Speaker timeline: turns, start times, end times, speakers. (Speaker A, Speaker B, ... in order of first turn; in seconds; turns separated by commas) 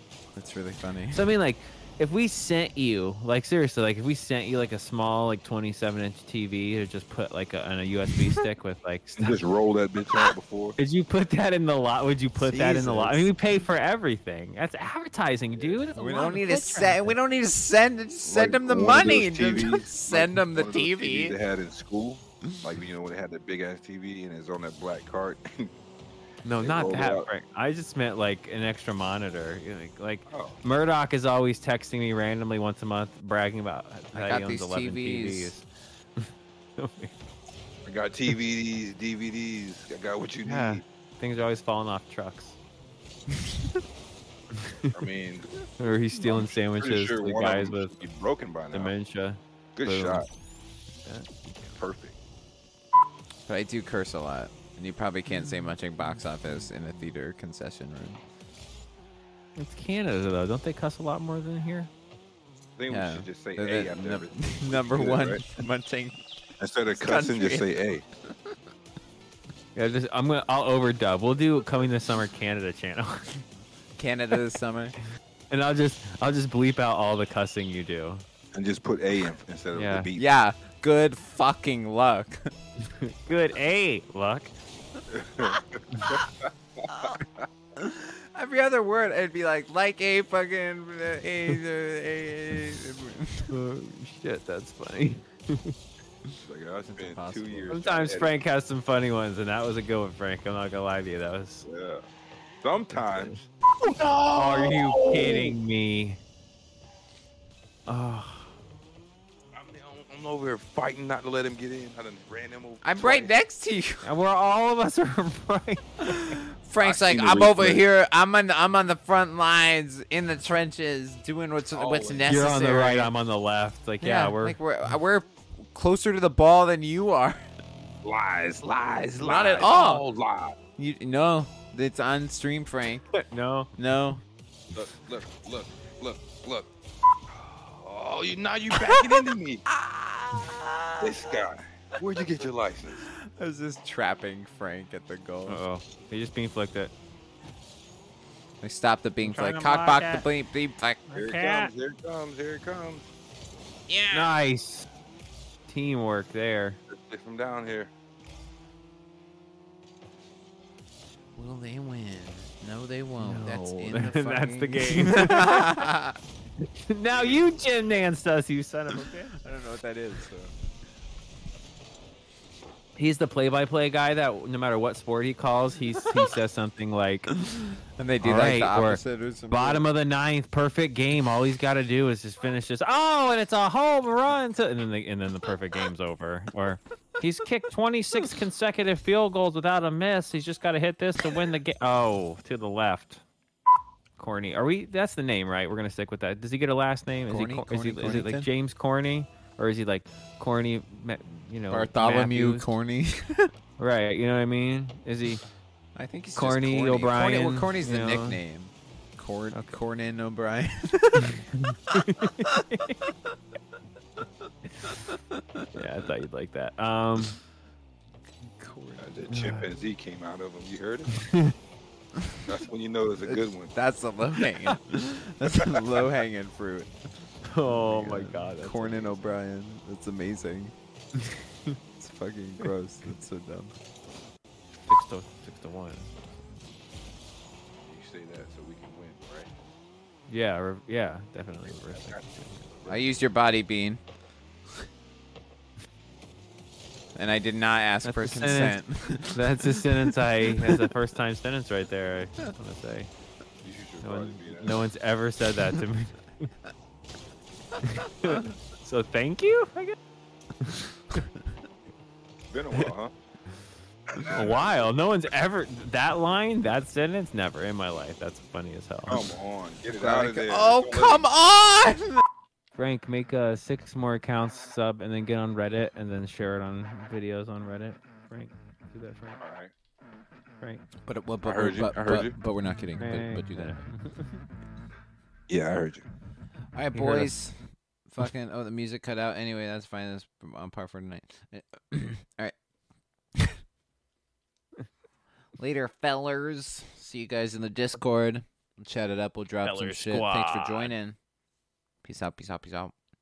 Speaker A: 0.3-1.3, Speaker B: 1.1-9.4, Speaker C: 9.2-10.8, Speaker B: 10.8-17.1, Speaker A: 12.4-13.3, Speaker C: 15.5-15.8, Speaker A: 16.0-21.4, Speaker C: 18.2-25.7, Speaker B: 26.4-35.6, Speaker C: 26.6-27.3, Speaker C: 30.3-30.6, Speaker A: 34.1-35.5, Speaker B: 36.2-37.1, Speaker C: 37.9-40.8, Speaker B: 40.4-42.6, Speaker B: 44.6-45.0, Speaker C: 44.9-45.6, Speaker B: 45.8-48.0, Speaker C: 46.1-48.9, Speaker B: 48.7-50.2, Speaker C: 49.8-50.3, Speaker B: 51.0-51.8, Speaker C: 51.7-52.2, Speaker A: 53.5-58.2, Speaker B: 55.3-56.7, Speaker B: 59.6-61.9, Speaker C: 62.8-65.4, Speaker A: 62.9-66.2, Speaker C: 66.6-68.0, Speaker A: 66.9-67.8, Speaker B: 69.7-73.3, Speaker A: 74.0-75.0, Speaker B: 75.5-78.2, Speaker C: 78.5-80.2, Speaker B: 79.7-80.1, Speaker A: 80.2-82.4, Speaker B: 83.0-84.5, Speaker C: 85.1-87.5, Speaker A: 86.9-87.2, Speaker A: 87.8-93.5, Speaker B: 93.5-95.7, Speaker C: 96.4-98.3, Speaker A: 96.8-97.8, Speaker B: 97.7-101.7, Speaker C: 101.6-102.0, Speaker C: 102.6-103.4, Speaker B: 103.0-103.4, Speaker A: 103.8-105.5, Speaker B: 104.3-106.2, Speaker B: 107.9-108.5, Speaker C: 109.5-113.3, Speaker A: 112.8-114.0, Speaker B: 114.0-116.4, Speaker A: 116.1-123.1, Speaker C: 116.8-117.8, Speaker C: 121.7-122.3, Speaker B: 122.3-124.6, Speaker A: 124.0-127.4, Speaker C: 128.0-130.6, Speaker A: 129.2-130.0, Speaker A: 130.8-133.1, Speaker B: 133.1-133.7, Speaker A: 133.8-134.2, Speaker C: 134.7-136.7, Speaker C: 137.3-139.6, Speaker A: 139.7-141.4, Speaker C: 141.0-143.1, Speaker A: 143.2-145.6, Speaker B: 145.5-146.9, Speaker A: 148.6-151.0, Speaker B: 149.2-150.3, Speaker B: 151.1-151.7, Speaker C: 151.1-153.1, Speaker A: 153.9-154.4, Speaker B: 154.1-154.9, Speaker B: 155.7-156.8, Speaker C: 156.9-157.9, Speaker A: 161.3-166.2, Speaker B: 163.2-165.9, Speaker B: 166.9-169.4, Speaker C: 167.1-167.6, Speaker A: 169.4-170.5, Speaker B: 172.9-177.3, Speaker A: 177.3-179.9, Speaker B: 178.2-193.2, Speaker B: 194.2-202.7, Speaker A: 197.3-198.5, Speaker A: 201.7-203.5, Speaker B: 203.8-205.4, Speaker A: 205.9-211.4, Speaker B: 206.3-208.4, Speaker B: 209.5-209.8, Speaker B: 211.2-213.1, Speaker A: 214.8-215.6, Speaker B: 215.7-217.4, Speaker A: 218.5-219.1, Speaker C: 219.0-221.2, Speaker B: 219.3-219.7, Speaker B: 221.2-221.5, Speaker C: 222.5-223.7, Speaker A: 223.2-226.9, Speaker B: 227.4-229.4, Speaker A: 227.6-230.7, Speaker A: 232.0-233.7, Speaker B: 234.8-236.1, Speaker C: 237.8-239.6, Speaker B: 240.3-242.6, Speaker C: 241.6-243.2, Speaker A: 242.9-244.0, Speaker A: 247.2-250.8, Speaker B: 248.0-253.1, Speaker C: 253.6-254.9, Speaker B: 254.0-256.5, Speaker B: 257.8-259.9, Speaker B: 260.6-261.2, Speaker C: 262.5-263.1, Speaker C: 264.1-264.8, Speaker B: 264.3-269.3, Speaker C: 269.1-271.3, Speaker A: 269.9-272.2, Speaker B: 272.8-279.4, Speaker C: 279.4-279.7, Speaker A: 281.1-283.8, Speaker C: 281.4-282.4, Speaker B: 283.0-284.3, Speaker C: 285.5-286.1, Speaker A: 286.7-292.5, Speaker B: 286.9-287.3, Speaker A: 295.6-301.2, Speaker B: 299.6-300.9, Speaker A: 302.0-302.9